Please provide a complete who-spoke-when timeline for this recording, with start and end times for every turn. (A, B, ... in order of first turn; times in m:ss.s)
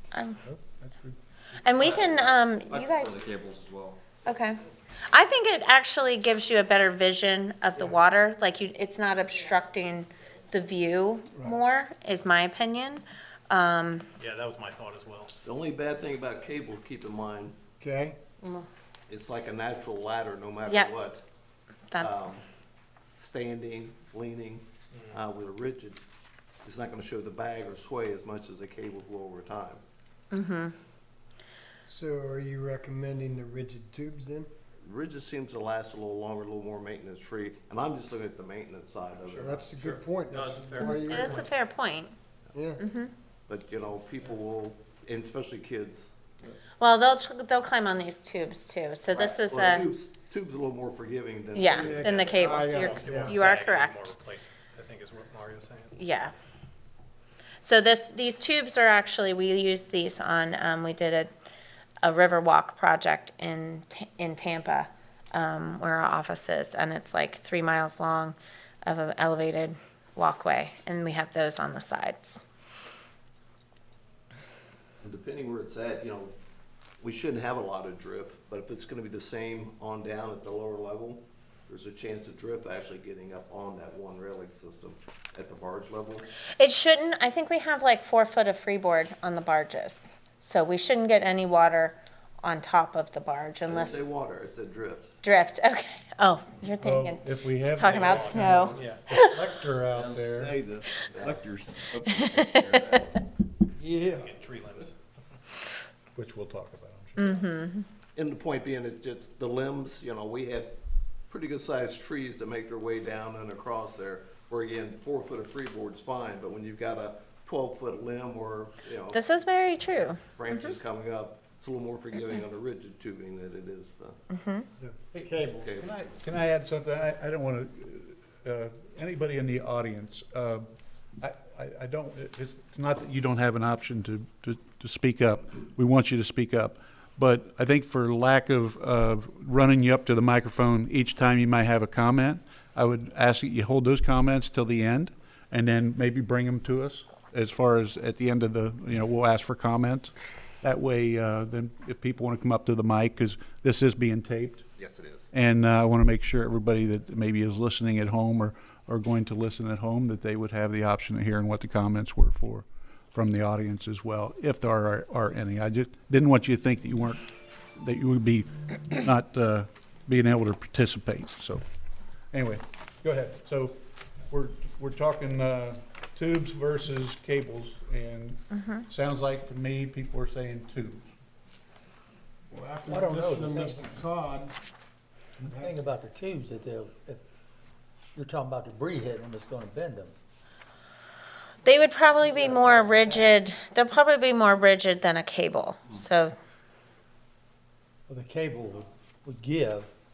0:00.4-0:01.2 A
0:01.6-0:03.2 B
0:01.8-0:04.3 C
0:04.2-0:14.0 B
0:07.7-0:08.0 D
0:14.2-0:15.3 E
0:15.4-0:17.6 F
0:17.8-0:18.2 D
0:18.4-0:18.7 B
0:19.1-0:21.2 F
0:20.6-0:20.9 B
0:21.9-0:22.4 B
0:22.0-0:22.4 F
0:23.2-0:26.0 F
0:24.9-0:25.2 E
0:26.6-0:29.8 F
0:30.3-0:30.7 B
0:31.8-0:34.5 D
0:34.8-0:40.0 F
0:39.3-0:41.5 D
0:40.3-0:41.5 E
0:41.0-0:42.1 B
0:42.5-0:42.8 D
0:42.8-0:43.1 B
0:43.5-0:46.1 F
0:46.8-0:49.9 B
0:49.1-0:52.7 F
0:51.5-0:54.1 B
0:51.7-0:53.5 D
0:52.0-0:56.0 E
0:56.0-0:56.3 B
0:57.6-1:01.3 B
1:02.0-1:12.4 B
1:15.0-1:16.3 F
1:17.0-1:26.3 F
1:26.6-1:34.0 B
1:33.6-1:35.1 F
1:35.2-1:39.5 B
1:36.8-1:40.5 A
1:37.8-1:39.0 E
1:40.0-1:40.6 F
1:40.0-1:43.0 C
1:41.1-1:41.4 F
1:42.1-1:43.1 B
1:43.8-1:44.3 D
1:44.1-1:45.0 E
1:46.1-1:47.4 A
1:47.2-1:47.9 B
1:48.1-1:50.8 F
1:51.3-1:59.2 F
1:59.1-2:00.7 B
2:00.3-2:04.2 F
2:04.3-2:04.6 B
2:04.8-2:05.8 D
2:05.2-2:10.6 A
2:05.6-2:05.9 F
2:11.2-2:34.6 A
2:34.8-2:35.2 C
2:35.3-2:47.2 A
2:47.7-2:51.6 A
2:52.3-3:01.0 A
2:58.5-2:58.8 B
3:02.5-3:04.5 D
3:02.8-3:03.9 G
3:05.4-3:05.8 D
3:05.4-3:07.2 G
3:08.1-3:10.1 G
3:11.6-3:16.3 B
3:12.3-3:13.3 G
3:18.1-3:19.9 G